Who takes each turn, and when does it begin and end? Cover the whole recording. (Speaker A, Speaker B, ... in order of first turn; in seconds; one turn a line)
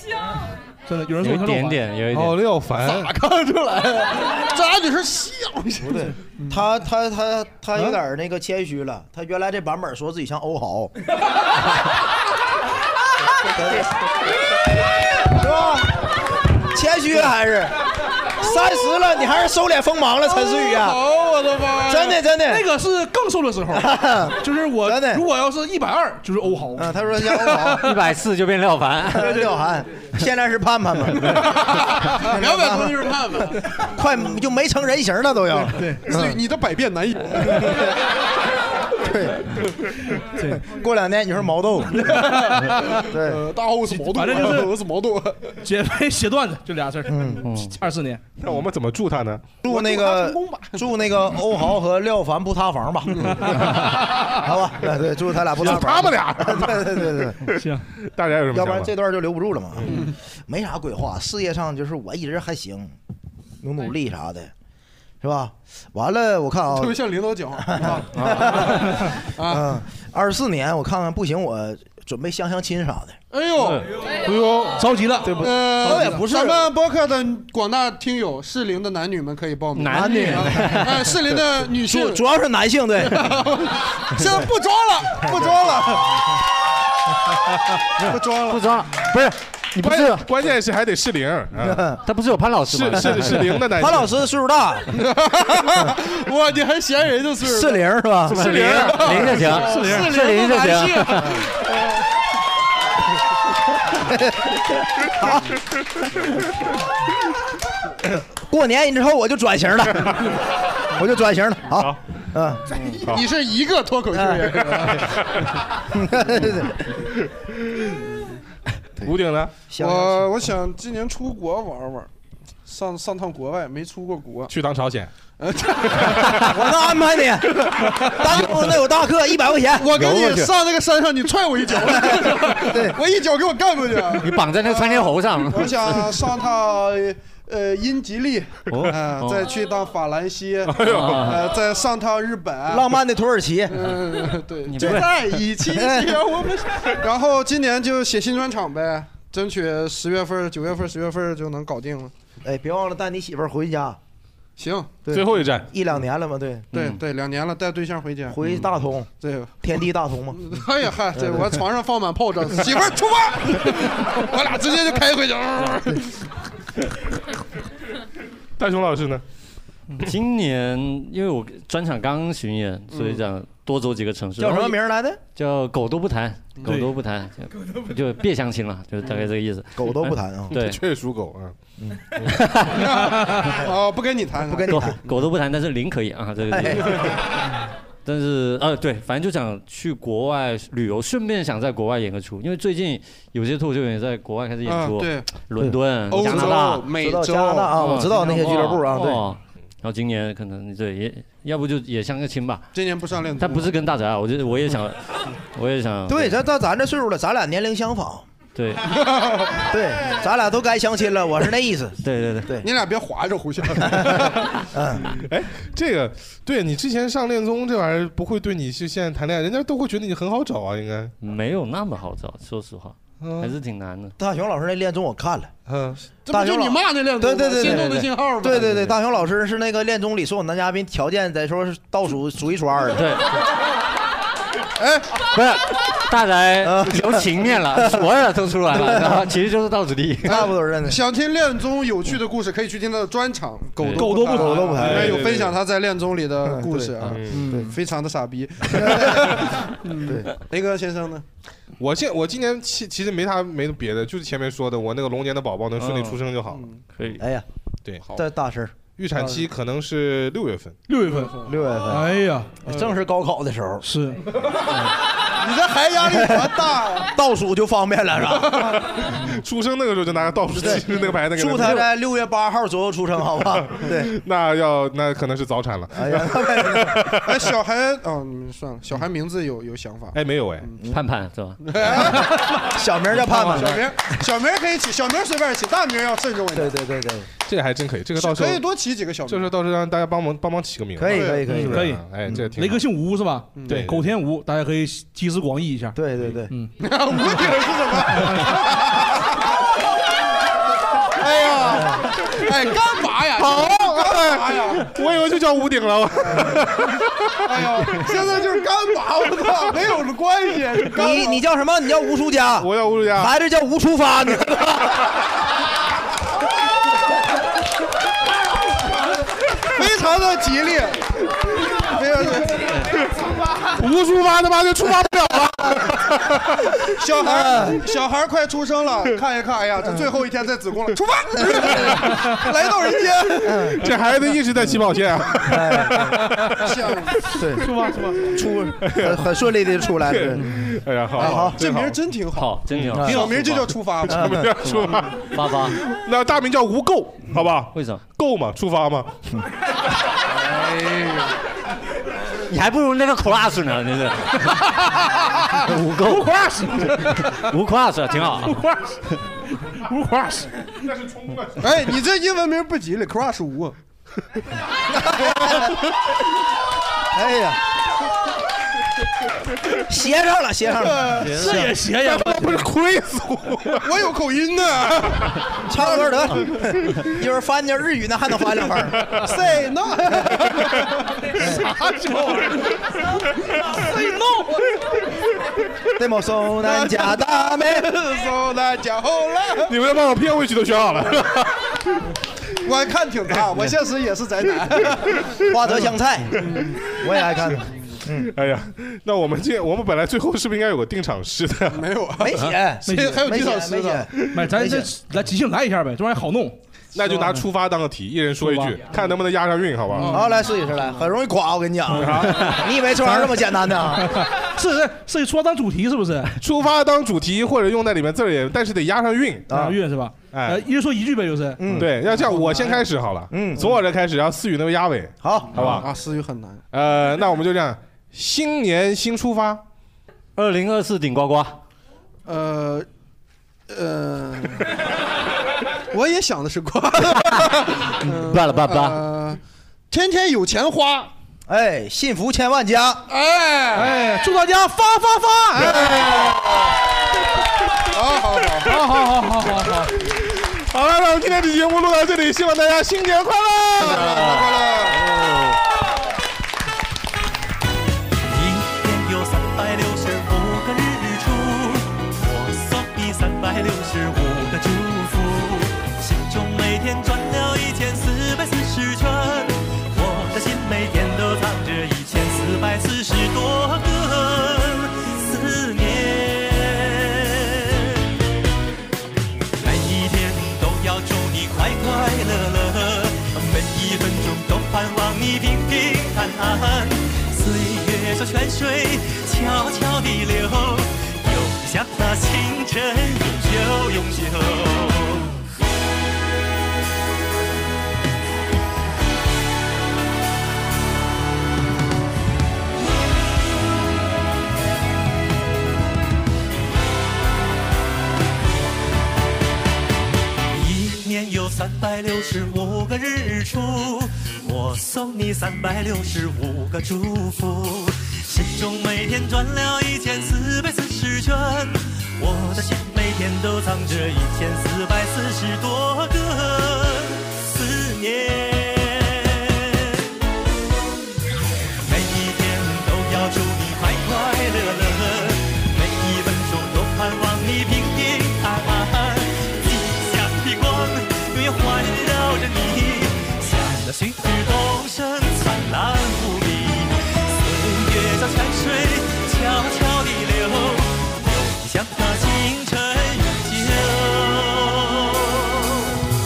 Speaker A: 0.9-1.8
Speaker B: 1.2-2.4
Speaker C: 2.1-3.1
Speaker D: 2.8-6.7
Speaker E: 5.8-10.9
Speaker E: 13.5-13.9
Speaker E: 15.3-16.1
Speaker E: 16.6-17.8
Speaker E: 18.3-21.1
Speaker D: 20.2-22.2
Speaker E: 21.8-22.7
Speaker A: 22.4-27.9
Speaker E: 23.7-25.2
Speaker E: 26.8-28.0
Speaker B: 27.8-29.6
Speaker E: 29.1-36.4
Speaker D: 31.3-33.9
Speaker A: 35.8-36.0
Speaker D: 36.0-38.0
Speaker E: 39.0-39.6
Speaker E: 40.5-42.1
Speaker A: 42.1-42.9
Speaker D: 42.1-45.6
Speaker E: 43.1-43.5
Speaker A: 43.9-44.7
Speaker A: 45.6-48.2
Speaker E: 47.1-47.5
Speaker B: 47.4-47.8
Speaker C: 48.4-49.6
Speaker E: 49.6-57.4
Speaker D: 49.6-50.8
Speaker D: 53.2-53.7
Speaker C: 55.5-58.9
Speaker A: 57.5-57.9
Speaker E: 58.5-63.0
Speaker D: 59.9-60.1
Speaker E: 63.6-64.5
Speaker E: 65.2-67.0
Speaker D: 66.7-69.8
Speaker E: 67.6-73.2
Speaker B: 68.2-68.9
Speaker D: 73.3-74.0
Speaker B: 73.6-73.9
Speaker C: 74.5-74.7
Speaker A: 74.7-76.1
Speaker E: 75.2-76.7
Speaker D: 75.3-82.3
Speaker B: 79.8-81.1
Speaker E: 79.9-81.0
Speaker E: 81.8-83.5
Speaker D: 83.0-86.2
Speaker E: 85.3-85.6
Speaker D: 88.0-88.7
Speaker B: 88.0-90.3
Speaker C: 89.8-91.9
Speaker E: 91.6-92.0
Speaker B: 92.1-93.7
Speaker C: 92.7-94.1
Speaker E: 93.7-95.0
Speaker D: 94.9-101.7
Speaker E: 97.4-98.4
Speaker B: 98.3-101.5
Speaker C: 98.3-100.1
Speaker E: 103.9-105.6
Speaker E: 108.4-110.3
Speaker E: 110.9-112.7
Speaker D: 112.7-115.2
Speaker E: 114.1-114.7
Speaker E: 115.9-116.8
Speaker C: 117.1-118.0
Speaker D: 118.0-118.4
Speaker C: 119.0-119.6
Speaker E: 119.7-120.3
Speaker D: 119.8-122.1
Speaker D: 122.7-124.5
Speaker C: 124.5-125.1
Speaker D: 125.4-126.5
Speaker E: 126.4-130.0
Speaker D: 127.8-128.8
Speaker D: 129.7-142.9
Speaker B: 129.9-130.6
Speaker E: 131.8-133.0
Speaker B: 134.2-136.3
Speaker B: 138.7-139.5
Speaker C: 140.7-141.4
Speaker B: 140.8-141.5
Speaker E: 142.7-143.9
Speaker D: 143.7-152.1
Speaker B: 144.7-145.2
Speaker E: 145.7-146.2
Speaker E: 152.4-154.0
Speaker D: 154.6-155.0
Speaker E: 155.1-156.7
Speaker C: 155.1-155.7
Speaker B: 156.7-157.0
Speaker D: 156.7-158.4
Speaker E: 158.3-159.1
Speaker D: 159.2-159.7
Speaker E: 159.6-160.4
Speaker D: 160.3-166.3
Speaker E: 161.1-161.6
Speaker C: 168.6-169.2
Speaker B: 170.0-174.8
Speaker D: 172.9-173.2
Speaker E: 174.4-175.2
Speaker B: 175.3-180.8
Speaker D: 176.6-176.9
Speaker E: 179.8-180.6
Speaker C: 180.5-181.6
Speaker B: 182.3-183.2
Speaker D: 182.8-184.9
Speaker E: 184.5-185.0
Speaker B: 184.7-187.4
Speaker E: 186.5-187.2
Speaker B: 188.1-196.9
Speaker D: 194.7-195.3
Speaker E: 195.6-199.2
Speaker D: 196.1-198.2
Speaker B: 197.7-202.7
Speaker D: 202.7-203.8
Speaker B: 203.4-206.4
Speaker E: 206.1-208.3
Speaker B: 208.6-208.9
Speaker D: 208.9-209.6
Speaker E: 209.6-212.7
Speaker B: 212.0-212.5
Speaker D: 212.6-214.7
Speaker E: 213.8-215.2
Speaker C: 215.2-221.1
Speaker B: 221.2-224.1
Speaker C: 223.2-223.5
Speaker E: 224.2-225.5
Speaker C: 225.7-226.0
Speaker D: 226.2-229.0
Speaker E: 226.3-233.1
Speaker B: 232.9-233.4
Speaker D: 234.8-235.2
Speaker B: 235.3-240.4
Speaker E: 236.6-238.1
Speaker E: 238.7-239.3
Speaker E: 240.2-241.0
Speaker D: 240.2-251.2
Speaker A: 243.9-245.2
Speaker E: 244.1-245.4
Speaker C: 244.8-245.6
Speaker E: 246.4-247.8
Speaker C: 247.0-247.4
Speaker E: 248.7-249.4
Speaker E: 250.0-250.3
Speaker C: 251.8-256.7
Speaker B: 255.8-256.2
Speaker D: 256.5-256.8
Speaker E: 257.2-257.4
Speaker E: 258.1-258.8
Speaker C: 258.9-260.8
Speaker D: 259.1-259.5
Speaker A: 260.9-262.5
Speaker D: 261.0-261.8
Speaker E: 261.4-263.9
Speaker D: 262.7-263.0
Speaker A: 263.8-264.2
Speaker D: 265.2-267.1
Speaker E: 266.0-268.8
Speaker C: 268.7-271.9
Speaker E: 270.5-274.1
Speaker B: 271.6-271.9
Speaker C: 273.8-277.4
Speaker E: 275.9-277.0
Speaker D: 277.2-280.8
Speaker C: 280.1-280.7
Speaker B: 280.9-282.1
Speaker D: 281.6-286.8
Speaker E: 281.8-283.8
Speaker B: 283.1-283.8
Speaker E: 286.5-287.3
Speaker C: 287.4-288.6
Speaker D: 288.2-289.6
Speaker C: 289.3-292.9
Speaker E: 291.0-292.5
Speaker D: 291.1-291.5
Speaker A: 291.5-296.7
Speaker D: 293.6-293.9
Speaker C: 293.7-294.0
Speaker E: 295.9-296.5
Speaker D: 296.8-299.7
Speaker D: 301.0-304.9
Speaker C: 303.4-308.1
Speaker D: 306.2-306.6
Speaker D: 307.5-311.4
Speaker E: 310.9-315.1
Speaker C: 312.6-313.3
Speaker D: 319.8-322.9
Speaker C: 323.6-326.9
Speaker D: 327.0-333.9
Speaker E: 327.2-327.8
Speaker C: 331.9-332.1
Speaker E: 333.4-333.8
Speaker C: 333.8-336.6
Speaker E: 335.4-336.3
Speaker D: 336.4-338.4
Speaker E: 337.4-340.5
Speaker C: 338.8-339.3
Speaker C: 340.0-342.0
Speaker D: 341.1-344.7
Speaker E: 341.2-341.6
Speaker B: 342.4-343.8
Speaker C: 342.7-343.3
Speaker E: 342.9-343.4
Speaker C: 344.1-349.2
Speaker E: 344.1-344.5
Speaker B: 344.6-345.8
Speaker B: 347.7-348.0
Speaker D: 350.4-351.4
Speaker B: 352.4-354.9
Speaker A: 354.6-357.5
Speaker B: 355.6-358.6
Speaker A: 358.5-359.0
Speaker A: 359.7-360.7
Speaker C: 360.8-361.8
Speaker D: 361.6-363.8
Speaker E: 367.1-367.6
Speaker E: 369.9-371.3
Speaker D: 370.8-371.5
Speaker B: 371.2-371.8
Speaker A: 371.3-372.6
Speaker C: 372.0-373.9
Speaker D: 373.8-376.4
Speaker E: 375.6-379.2
Speaker D: 379.1-381.1
Speaker E: 381.4-381.7
Speaker C: 381.4-382.5
Speaker A: 383.8-384.6
Speaker E: 386.0-388.0
Speaker D: 386.6-389.7
Speaker C: 389.6-392.0
Speaker D: 392.6-395.3
Speaker E: 395.5-398.3
Speaker D: 396.4-397.0
Speaker D: 397.6-398.0
Speaker C: 398.2-401.9
Speaker D: 401.7-404.1
Speaker E: 402.2-404.9
Speaker A: 402.9-403.2
Speaker A: 404.3-406.6
Speaker C: 406.9-410.2
Speaker A: 408.4-408.8
Speaker D: 409.9-411.1
Speaker E: 410.1-414.3
Speaker C: 411.9-412.6
Speaker A: 414.1-416.3
Speaker C: 416.4-419.5
Speaker E: 419.5-419.8
Speaker A: 419.5-421.7
Speaker C: 420.3-420.6
Speaker E: 421.6-422.0
Speaker C: 421.7-425.9
Speaker D: 422.1-422.9
Speaker E: 423.3-423.7
Speaker E: 425.2-425.8
Speaker D: 425.6-426.6
Speaker C: 426.7-429.6
Speaker B: 430.4-431.6
Speaker D: 432.3-432.9
Speaker D: 433.7-434.7
Speaker D: 435.9-441.1
Speaker B: 438.0-439.1
Speaker E: 441.5-443.1
Speaker D: 443.1-443.9
Speaker A: 443.8-446.0
Speaker D: 445.6-446.7
Speaker D: 447.9-448.8
Speaker A: 448.7-449.9
Speaker C: 450.0-454.1
Speaker D: 453.8-455.1
Speaker B: 453.8-455.6
Speaker F: 458.3-478.0
Speaker F: 479.6-495.4
Speaker F: 510.5-530.1
Speaker F: 531.8-555.8